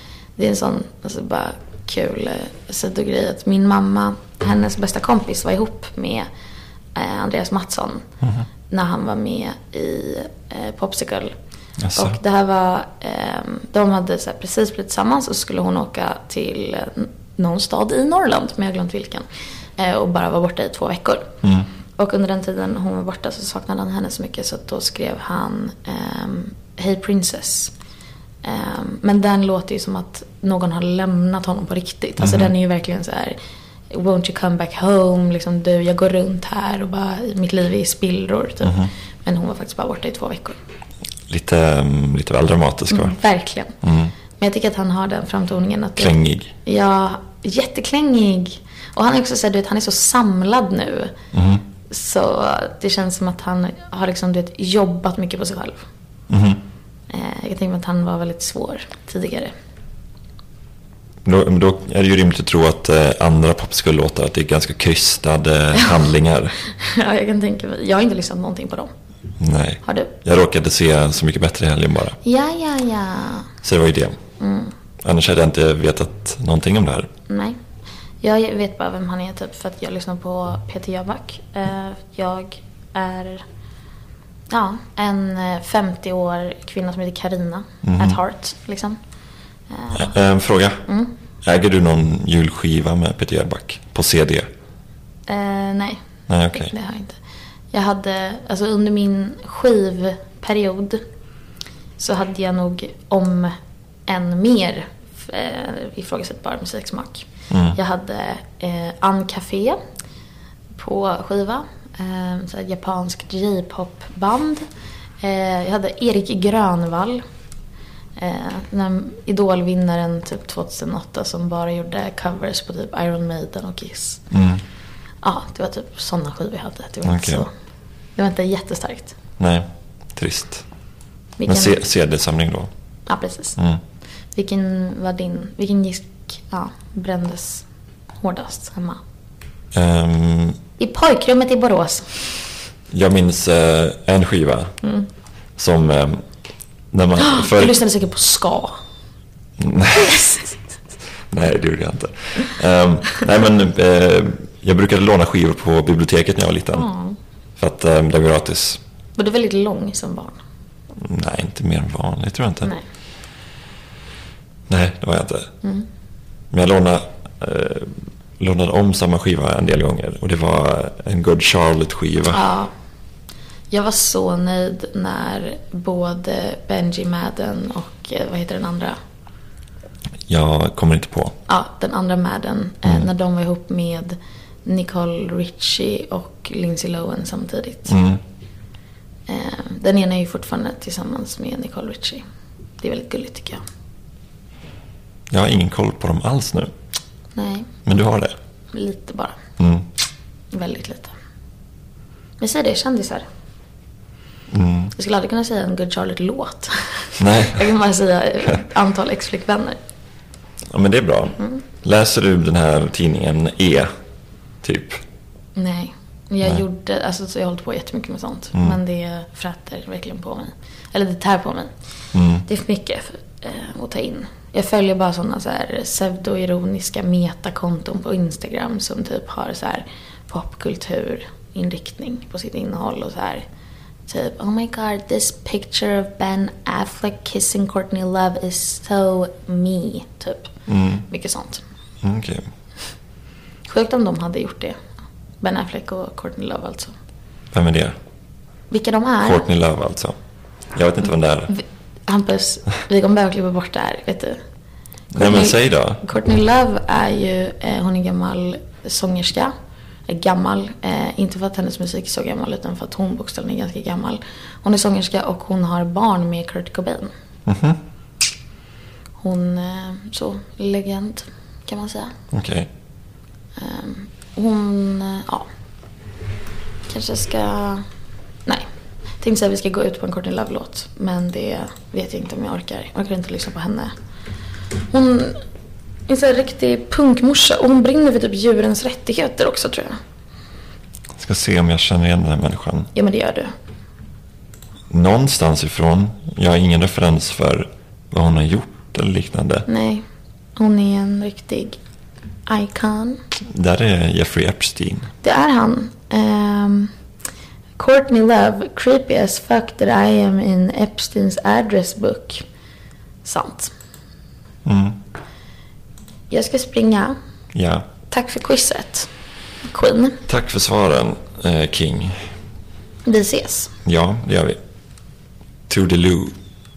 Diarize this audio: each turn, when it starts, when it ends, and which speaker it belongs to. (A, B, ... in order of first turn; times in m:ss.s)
0:00.4-0:06.3 A
0:06.9-0:08.0 A
0:08.7-0:11.3 A
0:11.8-0:12.2 B
0:11.9-0:21.3 A
0:21.4-0:21.7 B
0:22.0-0:27.7 A
0:28.4-0:33.4 A
0:32.2-0:32.5 B
0:33.9-0:40.6 A
0:38.6-0:38.9 B
0:41.3-0:43.1 B
0:42.9-0:43.8 A
0:43.8-0:44.1 B
0:44.3-0:46.1 A
0:46.0-0:46.5 B
0:46.6-0:51.1 A
0:51.3-0:51.6 B
0:51.8-0:55.8 A
0:56.3-0:56.6 B
0:57.1-0:59.5 A
1:01.2-1:06.6 B
1:06.7-1:08.9 A
1:09.4-1:12.2 B
1:09.8-1:10.1 A
1:12.2-1:13.5 A
1:13.6-1:14.2 B
1:14.4-1:14.7 A
1:15.0-1:17.1 B
1:17.3-1:17.6 A
1:18.2-1:23.4 A
1:24.5-1:29.0 A
1:27.8-1:28.2 B
1:29.7-1:30.1 A
1:29.9-1:30.8 B
1:30.9-1:31.1 A
1:31.4-1:34.5 B
1:35.3-1:37.2 A
1:36.3-1:36.7 B
1:37.7-1:41.0 A
1:42.0-1:43.5 A
1:44.1-1:49.8 A
1:47.5-1:47.8 B
1:50.7-1:54.7 A
1:55.2-1:57.2 A
1:58.2-2:04.2 A
2:04.3-2:04.6 B
2:05.2-2:07.5 A
2:07.0-2:07.5 B
2:08.2-2:09.2 A
2:09.4-2:10.6 B
2:11.4-2:11.8 A
2:11.5-2:12.7 B
2:13.0-2:13.6 A
2:14.3-2:17.6 A
2:18.2-2:19.0 A
2:19.7-2:20.6 B
2:20.8-2:22.4 A
2:22.9-2:24.7 B
2:25.6-2:26.2 B
2:26.9-2:27.8 B
2:27.2-2:28.8 A
2:29.6-2:30.3 B
2:29.9-2:30.6 A
2:31.3-2:36.9 B
2:36.7-2:37.2 A
2:37.6-2:38.8 B
2:39.2-2:40.4 A
2:41.0-2:42.7 B
2:44.7-2:45.5 B
2:46.5-2:52.4 B
2:52.3-2:52.7 A
2:53.7-2:59.0 A
3:00.3-3:01.4 B
3:01.5-3:07.9 A
3:07.9-3:08.2 B
3:09.3-3:12.2 A
3:12.8-3:13.6 A
3:15.3-3:16.7 B
3:17.3-3:17.7 A
3:17.8-3:18.4 B
3:18.7-3:19.4 A
3:19.6-3:19.9 B
3:20.5-3:21.1 A
3:22.4-3:23.2 A
3:24.5-3:24.9 B
3:24.9-3:29.8 A
3:27.2-3:27.7 B
3:30.7-3:33.9 B
3:34.6-3:35.0 B
3:35.6-3:41.7 A
3:42.1-3:42.4 B
3:42.5-3:53.4 A
3:54.1-4:00.5 A
4:00.7-4:01.0 B
4:01.1-4:01.6 A
4:02.0-4:02.4 B
4:03.7-4:04.8 A
4:05.4-4:06.9 A
4:07.5-4:07.9 B
4:08.7-4:09.5 A
4:09.2-4:10.2 B
4:10.7-4:11.5 B
4:11.5-4:14.4 A
4:15.1-4:19.5 A
4:15.1-4:16.0 B
4:20.1-4:27.1 A
4:27.4-4:27.8 B
4:29.2-4:32.1 A
4:32.3-4:32.7 B
4:33.6-4:35.5 A
4:36.9-4:37.8 A
4:39.2-4:43.9 A
4:44.9-4:45.4 A
4:46.1-4:50.0 A
4:51.2-4:52.9 B
4:52.9-4:53.5 A
4:54.9-4:59.7 B
4:59.7-5:00.0 A
5:00.6-5:01.8 A
5:02.5-5:03.2 A
5:03.5-5:05.1 B
5:05.2-5:06.9 A
5:07.8-5:12.4 A
5:13.2-5:13.7 A
5:14.6-5:15.0 B
5:16.3-5:17.2 A
5:17.5-5:17.9 B
5:18.1-5:19.1 A
5:19.6-5:20.2 A
5:20.3-5:22.2 B
5:23.0-5:23.7 A
5:23.8-5:24.6 B
5:25.7-5:26.3 B